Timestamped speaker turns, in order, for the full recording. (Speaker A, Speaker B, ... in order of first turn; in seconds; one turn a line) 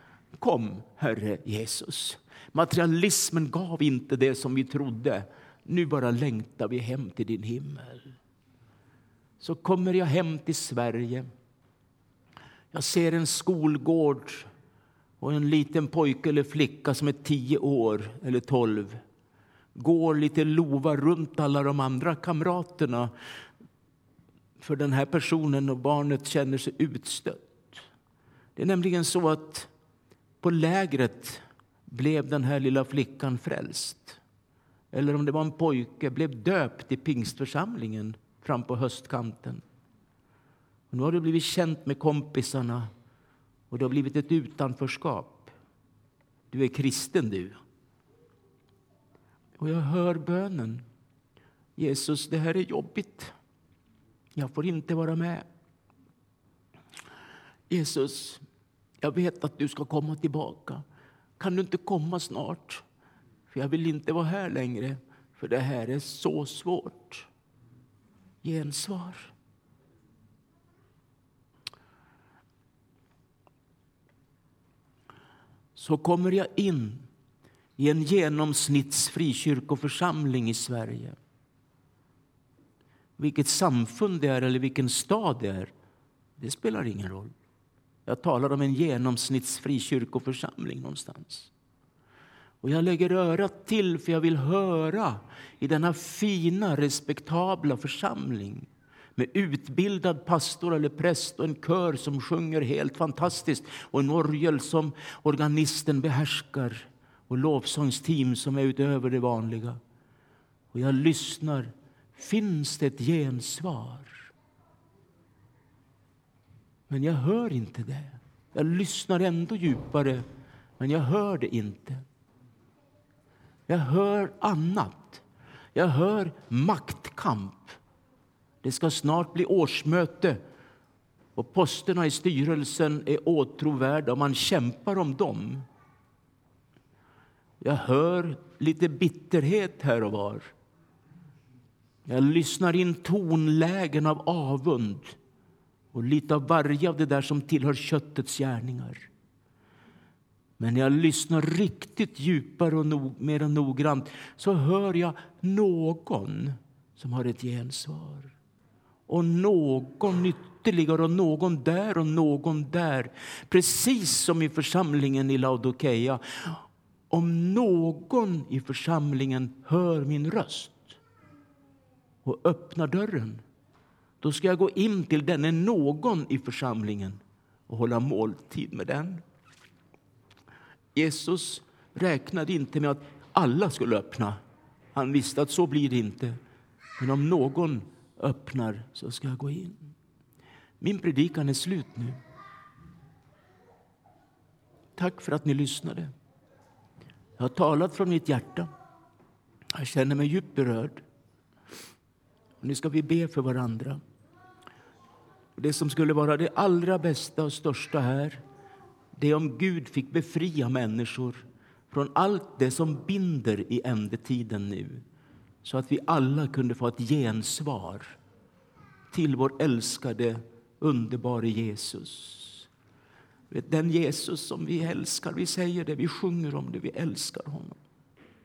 Speaker A: 0.3-8.1
Speaker A: 9.4-11.3
Speaker A: 12.7-14.5
Speaker A: 15.2-19.0
Speaker A: 19.8-23.1
Speaker A: 24.6-27.8
Speaker A: 28.6-29.7
Speaker A: 30.4-34.2
Speaker A: 34.9-39.6
Speaker A: 40.9-42.9
Speaker A: 43.7-45.5
Speaker A: 46.5-47.6
Speaker A: 49.6-50.8
Speaker A: 51.8-53.3
Speaker A: 54.4-55.5
Speaker A: 57.7-58.4
Speaker A: 59.0-60.8
Speaker A: 61.4-62.8
Speaker A: 63.5-67.3
Speaker A: 68.4-69.3
Speaker A: 75.8-77.1
Speaker A: 77.8-81.2
Speaker A: 83.2-85.7
Speaker A: 86.4-87.3
Speaker A: 88.0-91.5
Speaker A: 92.6-109.8
Speaker A: 110.7-114.3
Speaker A: 116.9-120.2
Speaker A: 120.8-122.0
Speaker A: 123.7-125.2
Speaker A: 125.7-127.8
Speaker A: 128.6-130.4
Speaker A: 131.3-135.7
Speaker A: 137.6-140.5
Speaker A: 142.1-145.2
Speaker A: 145.9-149.1
Speaker A: 150.6-158.3
Speaker A: 159.1-170.9
Speaker A: 172.2-173.4
Speaker A: 174.2-179.2
Speaker A: 180.9-184.4
Speaker A: 184.9-186.4
Speaker A: 187.0-189.9
Speaker A: 190.8-192.2
Speaker A: 195.0-196.1
Speaker A: 197.4-198.7
Speaker A: 199.7-201.0
Speaker A: 202.6-204.0
Speaker A: 205.6-208.4
Speaker A: 209.2-215.0
Speaker A: 215.6-218.2
Speaker A: 219.1-222.7
Speaker A: 223.5-227.8